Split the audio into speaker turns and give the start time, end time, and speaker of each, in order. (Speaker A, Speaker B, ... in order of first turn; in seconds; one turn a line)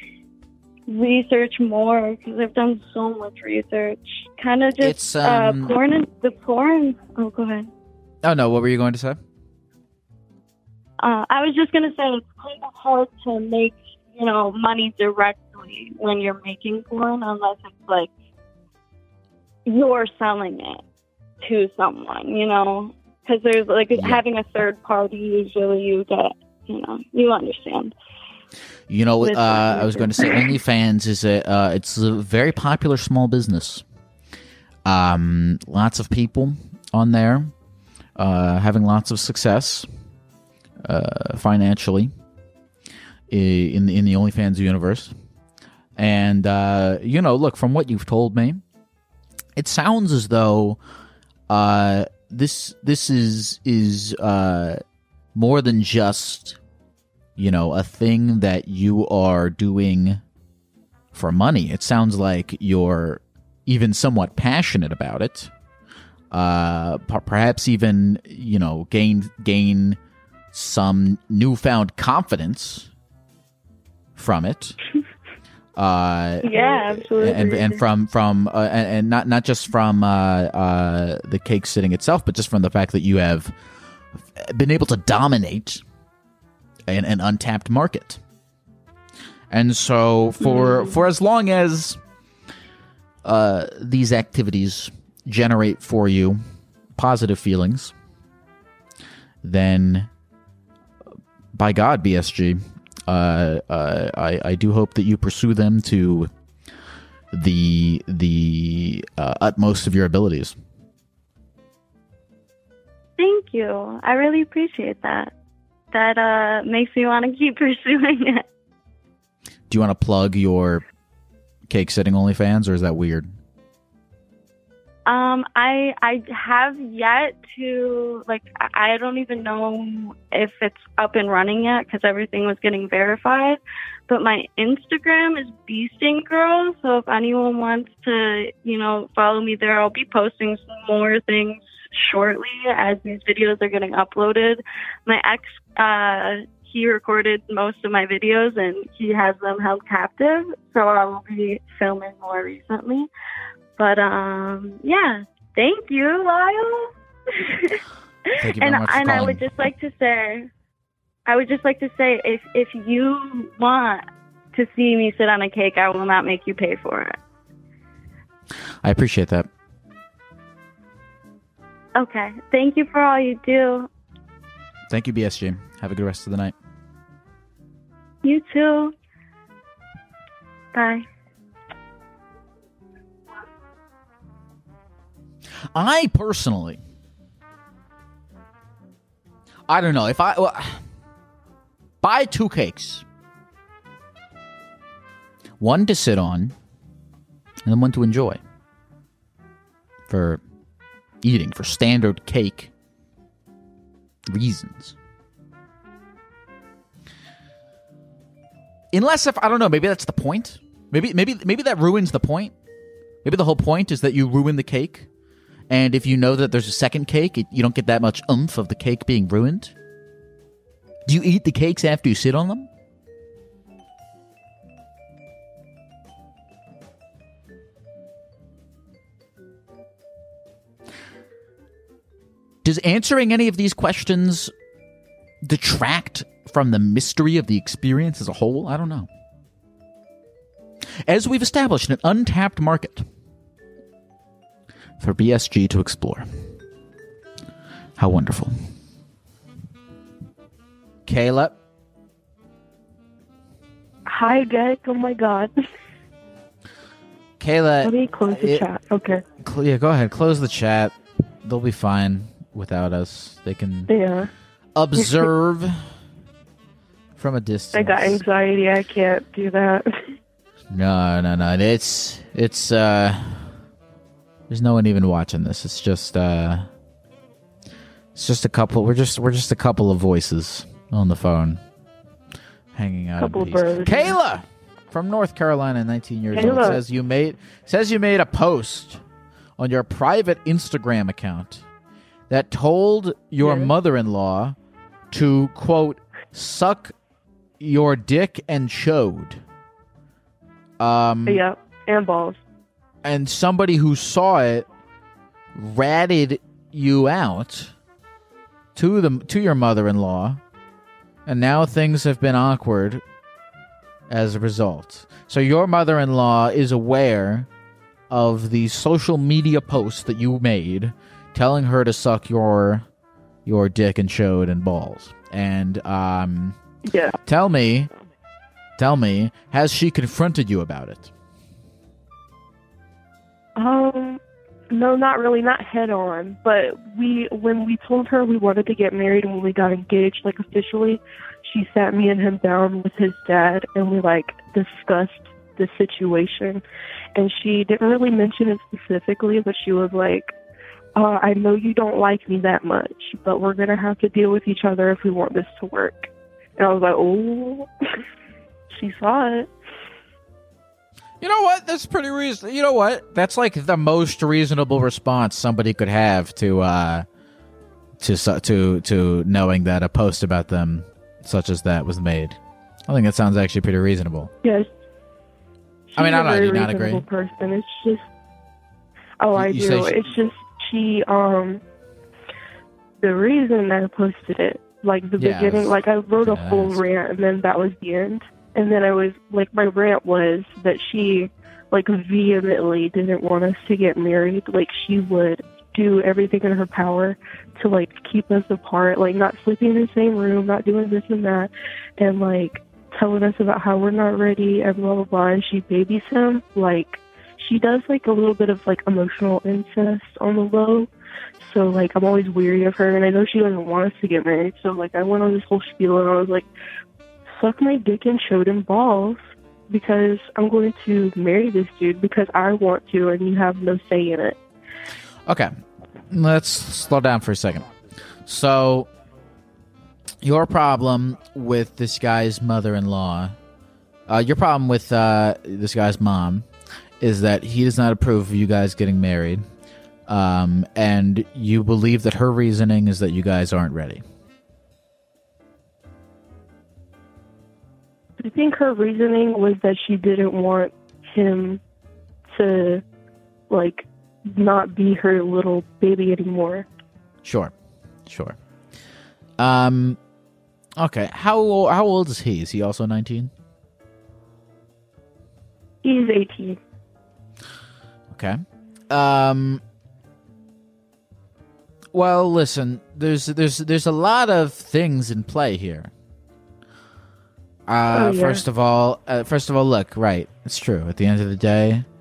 Speaker A: 0.9-7.7
Speaker B: 4.8-5.8
Speaker B: 8.2-9.2
Speaker A: 11.0-18.1
Speaker A: 19.6-20.8
Speaker A: 21.4-27.9
Speaker B: 23.9-24.2
Speaker B: 28.9-33.8
Speaker A: 29.2-30.5
Speaker B: 34.8-37.5
Speaker B: 38.2-39.9
Speaker B: 40.8-42.1
Speaker B: 43.3-45.1
Speaker B: 46.0-48.6
Speaker B: 49.5-50.8
Speaker B: 51.5-54.8
Speaker B: 55.3-56.6
Speaker B: 57.4-60.2
Speaker B: 61.1-65.5
Speaker B: 66.3-70.0
Speaker B: 70.5-72.9
Speaker B: 74.2-74.8
Speaker B: 75.8-83.5
Speaker A: 76.4-77.8
Speaker B: 84.3-85.8
Speaker B: 86.9-88.2
Speaker B: 89.5-92.0
Speaker B: 93.2-96.4
Speaker B: 97.0-97.9
Speaker B: 99.4-100.1
Speaker B: 101.5-106.3
Speaker B: 107.3-110.6
Speaker A: 113.2-115.3
Speaker A: 115.9-118.4
Speaker B: 119.7-120.8
Speaker B: 121.7-123.3
Speaker A: 125.0-153.1
Speaker A: 153.8-157.8
Speaker A: 158.3-160.5
Speaker B: 158.3-159.7
Speaker A: 161.3-167.2
Speaker B: 168.8-169.5
Speaker A: 171.9-173.9
Speaker B: 174.9-176.6
Speaker A: 178.2-178.9
Speaker A: 180.7-181.0
Speaker B: 185.7-186.8
Speaker B: 189.7-190.8
Speaker B: 192.0-193.0
Speaker B: 195.6-196.5
Speaker B: 197.6-198.4
Speaker B: 200.1-200.4
Speaker B: 201.2-202.7
Speaker B: 204.3-204.9
Speaker B: 208.9-212.5
Speaker B: 213.2-215.1
Speaker B: 215.7-219.7
Speaker B: 221.1-222.7
Speaker B: 232.6-234.5
Speaker B: 235.4-239.1
Speaker B: 241.1-243.1
Speaker B: 245.0-246.3
Speaker B: 248.0-248.5
Speaker B: 251.1-251.6
Speaker C: 254.1-255.5
Speaker B: 257.4-258.6
Speaker C: 257.8-259.2
Speaker B: 259.4-263.9
Speaker C: 263.9-264.3
Speaker B: 264.8-265.8
Speaker C: 265.0-265.3
Speaker B: 267.2-268.2
Speaker C: 267.7-270.1
Speaker B: 270.7-273.6
Speaker B: 274.5-276.7
Speaker B: 278.1-281.6
Speaker B: 282.7-289.0
Speaker C: 283.2-284.2
Speaker C: 286.3-286.8
Speaker B: 289.6-291.6
Speaker B: 292.3-294.6
Speaker C: 293.4-293.7
Speaker B: 295.1-296.9
Speaker B: 297.6-299.4
Speaker B: 300.8-301.4
Speaker C: 301.2-302.4
Speaker B: 303.0-304.7
Speaker B: 305.5-307.7
Speaker B: 308.7-310.4
Speaker B: 311.2-313.0
Speaker B: 314.1-317.5
Speaker B: 318.1-322.8
Speaker B: 323.4-326.6
Speaker C: 326.9-327.1
Speaker B: 327.2-327.9
Speaker B: 328.8-331.1
Speaker C: 333.6-346.6
Speaker C: 347.1-350.3
Speaker C: 350.9-357.7
Speaker C: 358.7-359.5
Speaker B: 361.2-367.1
Speaker B: 368.0-374.3
Speaker C: 374.4-374.7
Speaker C: 375.9-378.1
Speaker B: 375.9-377.0
Speaker C: 379.2-381.6
Speaker B: 379.3-380.1
Speaker C: 383.0-410.9
Speaker B: 385.2-386.8
Speaker C: 411.4-416.5
Speaker C: 417.3-424.4
Speaker B: 425.2-425.5
Speaker B: 426.1-427.7
Speaker B: 428.2-428.9
Speaker B: 430.2-433.4
Speaker B: 434.1-436.5
Speaker B: 437.0-439.5
Speaker B: 440.1-444.0
Speaker C: 448.2-451.6
Speaker C: 452.3-452.8
Speaker C: 453.5-456.7
Speaker B: 457.2-457.5
Speaker B: 458.1-458.4
Speaker B: 459.4-460.0
Speaker B: 460.8-463.3
Speaker C: 465.8-466.6
Speaker B: 468.1-469.6
Speaker B: 471.9-475.9
Speaker B: 477.7-481.9
Speaker C: 477.9-478.4